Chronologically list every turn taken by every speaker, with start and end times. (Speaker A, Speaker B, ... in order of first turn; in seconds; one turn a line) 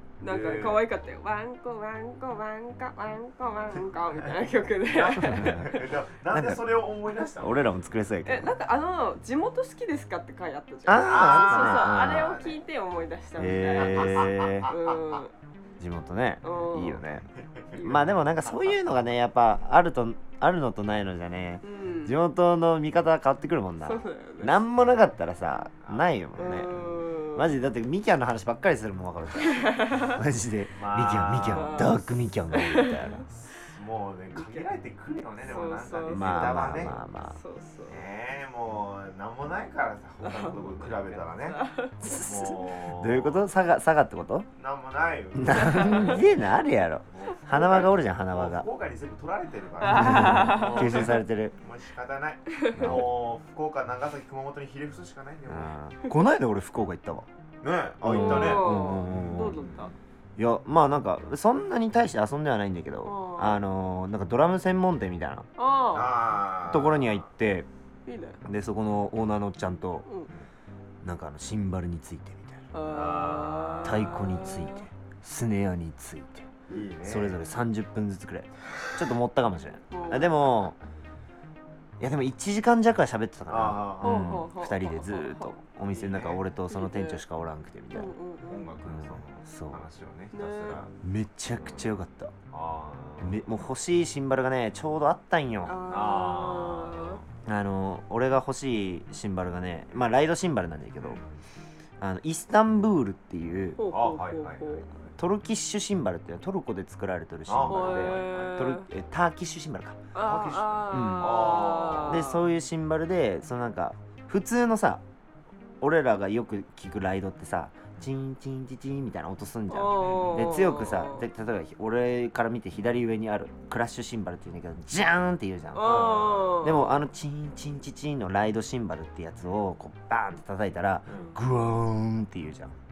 Speaker A: 0.2-5.8
Speaker B: 0.2-0.8
Speaker B: 4.5-7.6
Speaker C: 5.2-5.8
Speaker C: 6.3-6.6
Speaker C: 7.4-8.5
Speaker A: 8.2-15.3
Speaker C: 10.8-12.3
Speaker B: 11.0-12.6
Speaker C: 13.4-14.7
Speaker B: 13.8-14.8
Speaker C: 15.8-17.3
Speaker A: 16.4-17.0
Speaker B: 17.6-18.0
Speaker A: 17.7-18.1
Speaker C: 17.8-26.7
Speaker A: 21.6-22.2
Speaker A: 23.8-24.7
Speaker B: 25.8-26.8
Speaker A: 26.4-27.5
Speaker C: 27.3-33.2
Speaker A: 29.4-30.2
Speaker B: 30.8-32.0
Speaker A: 31.5-33.2
Speaker B: 33.2-37.0
Speaker A: 34.3-34.7
Speaker A: 35.4-36.5
Speaker C: 36.1-37.4
Speaker A: 37.2-38.0
Speaker B: 37.9-41.6
Speaker A: 40.2-42.2
Speaker C: 42.0-44.5
Speaker B: 42.1-43.5
Speaker B: 44.6-46.3
Speaker C: 45.4-48.6
Speaker A: 45.5-46.2
Speaker B: 47.1-55.7
Speaker A: 47.5-47.8
Speaker A: 49.8-51.1
Speaker C: 49.9-51.5
Speaker A: 52.6-53.0
Speaker C: 52.7-53.2
Speaker C: 55.5-57.3
Speaker B: 57.6-58.9
Speaker C: 58.0-59.6
Speaker A: 58.1-59.9
Speaker C: 60.4-65.5
Speaker A: 63.0-63.6
Speaker A: 65.6-66.2
Speaker B: 65.9-67.2
Speaker C: 66.6-67.7
Speaker A: 68.0-68.4
Speaker C: 68.4-70.1
Speaker C: 71.0-72.7
Speaker A: 72.7-74.8
Speaker B: 72.8-74.1
Speaker C: 73.8-76.5
Speaker B: 76.7-77.4
Speaker C: 77.0-80.8
Speaker A: 79.9-80.5
Speaker C: 82.0-88.1
Speaker B: 83.5-84.4
Speaker A: 84.0-85.5
Speaker B: 85.9-86.4
Speaker A: 86.7-87.2
Speaker A: 87.9-88.7
Speaker B: 88.4-90.9
Speaker C: 88.9-89.8
Speaker A: 90.3-90.8
Speaker C: 91.0-92.3
Speaker B: 91.6-91.8
Speaker B: 92.5-93.4
Speaker C: 93.2-95.8
Speaker A: 95.6-97.2
Speaker B: 95.9-97.2
Speaker C: 97.4-101.2
Speaker B: 101.0-101.4
Speaker C: 102.0-103.8
Speaker A: 103.8-104.8
Speaker B: 103.9-104.9
Speaker C: 105.2-110.0
Speaker B: 107.5-108.6
Speaker A: 107.7-108.9
Speaker A: 110.1-112.4
Speaker B: 110.2-112.3
Speaker C: 110.9-115.0
Speaker C: 115.8-132.7
Speaker A: 119.7-121.2
Speaker B: 120.0-120.5
Speaker A: 125.7-127.0
Speaker B: 125.8-126.6
Speaker B: 131.1-131.3